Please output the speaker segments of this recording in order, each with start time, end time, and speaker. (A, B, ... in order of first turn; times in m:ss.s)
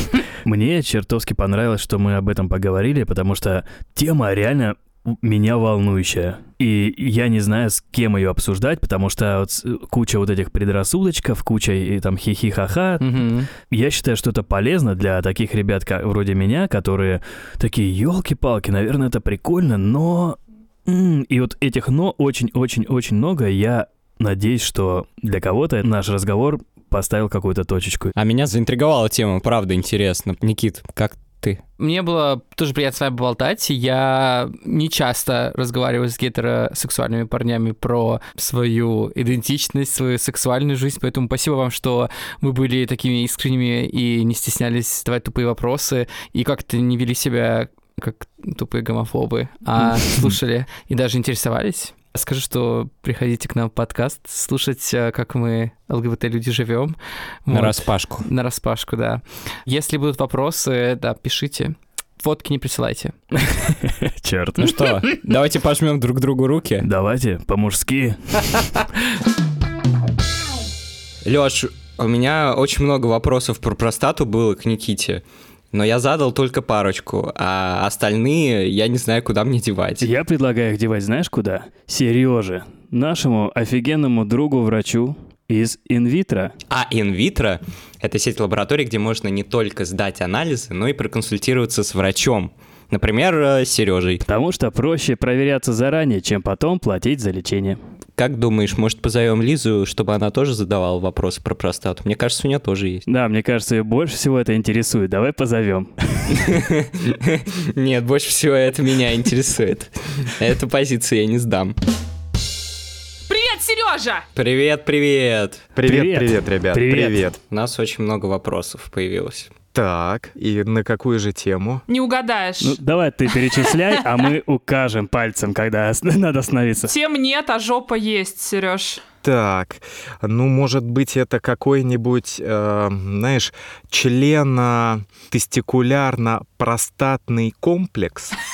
0:00.4-0:13.1 A
0:13.0-0:13.5 B
0:13.6-0:28.1 A
0:28.2-0:31.6 C
0:31.8-0:57.0 B
0:57.5-1:03.2 B
0:57.5-0:58.3 C
1:03.5-1:04.9 A
1:04.6-1:06.9 C
1:06.8-1:08.7 A
1:11.2-1:20.1 C
1:20.0-1:26.5 A
1:26.7-1:34.2 C
1:34.3-1:37.8 A
1:38.2-1:43.1 C
1:43.1-1:46.3 A
1:46.3-1:51.8 C
1:53.3-1:54.2 D
1:54.4-1:55.6 C
1:55.8-1:57.4 E
1:55.8-1:57.2 A
1:57.4-1:59.5 C
1:59.7-2:01.8 E
2:01.9-2:02.8 D
2:02.6-2:06.9 A
2:06.8-2:09.0 D
2:09.2-2:18.4 E